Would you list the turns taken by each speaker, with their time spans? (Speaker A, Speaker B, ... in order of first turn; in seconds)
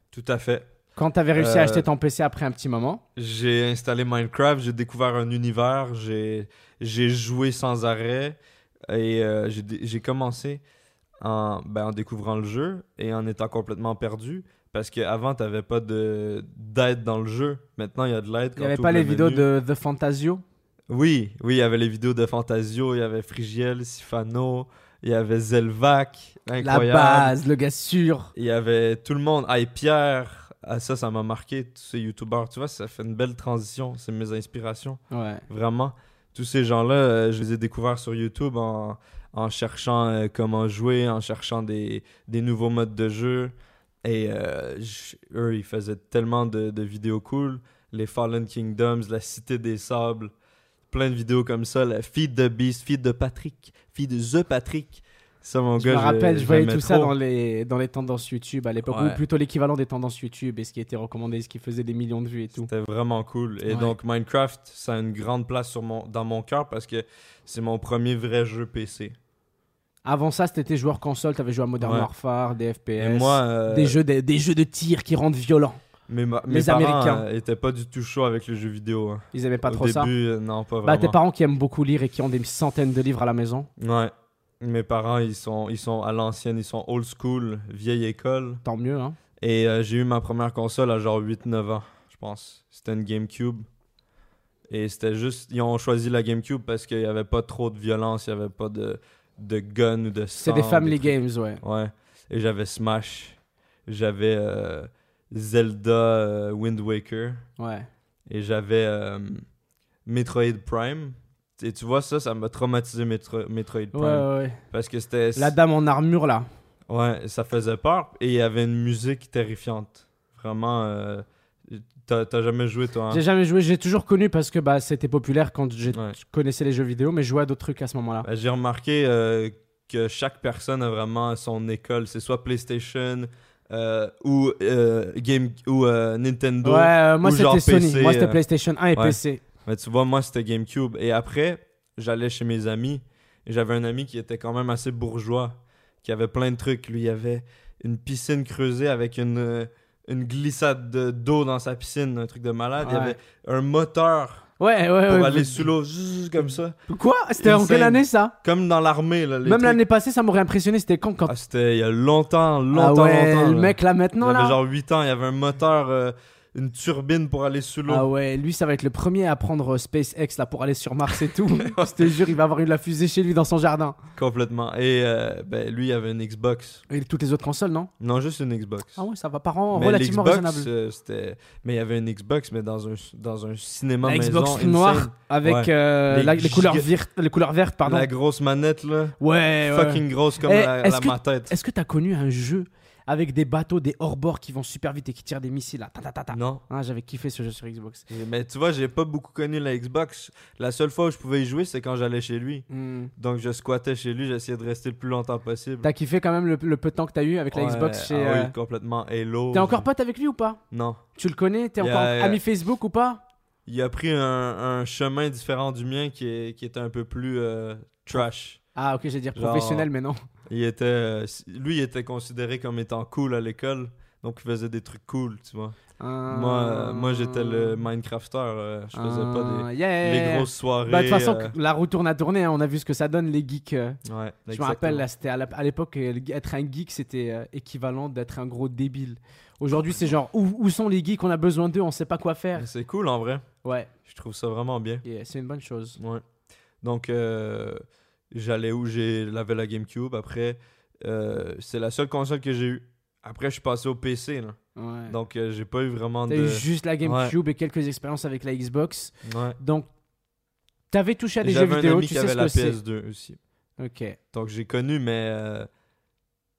Speaker A: 0.1-0.7, 1.4-1.9, 3.2-8.4, 8.9-10.6, 11.2-19.5, 20.9-27.4, 28.4-43.5, 44.0-50.3, 50.9-57.1, 58.8-59.2, 62.6-69.2, 71.8-72.1, 73.0-74.0, 76.1-81.2, 83.8-88.6, 89.4-93.7, 94.7-107.4, 108.3-109.5, 110.1-115.5, 116.9-123.2, 125.9-126.2, 128.2-138.4, 138.9-154.5, 155.1-156.8, 157.4-159.8, 161.3-168.1, 171.6-172.1, 174.2-176.8, 178.0-179.0, 179.7-186.9, 187.8-189.2, 189.7-191.6, 196.3-196.6, 198.1-205.9, 207.5-209.9, 210.7-211.0, 211.8-212.4, 213.7-218.6, 219.3-219.9, 220.5-231.5, 234.1-235.1, 242.6-243.5, 244.1-245.0, 246.0-246.2, 246.8-257.4, 259.2-259.6, 261.4-263.4, 264.3-265.7
Speaker B: 1.0-3.0, 18.6-20.4, 26.6-28.3, 35.1-35.5, 55.8-62.7, 63.7-63.9, 70.0-75.8, 76.5-77.2, 79.3-80.1, 80.8-83.7, 88.6-89.2, 100.4-101.6, 107.6-107.9, 113.9-114.6, 115.4-116.5, 123.1-128.3, 136.6-139.4, 152.8-153.2, 154.6-155.7, 156.9-158.3, 159.4-161.3, 162.7-164.6, 167.9-174.0, 176.9-177.9, 179.0-180.7, 184.0-188.1, 189.2-198.1, 202.7-203.1, 205.8-208.5, 209.5-210.6, 211.2-213.2, 218.8-220.2, 226.0-227.8, 228.9-234.0, 234.5-242.7, 243.6-243.9, 245.0-246.0, 254.8-255.2, 256.3-259.9, 260.9-262.8, 263.8-264.2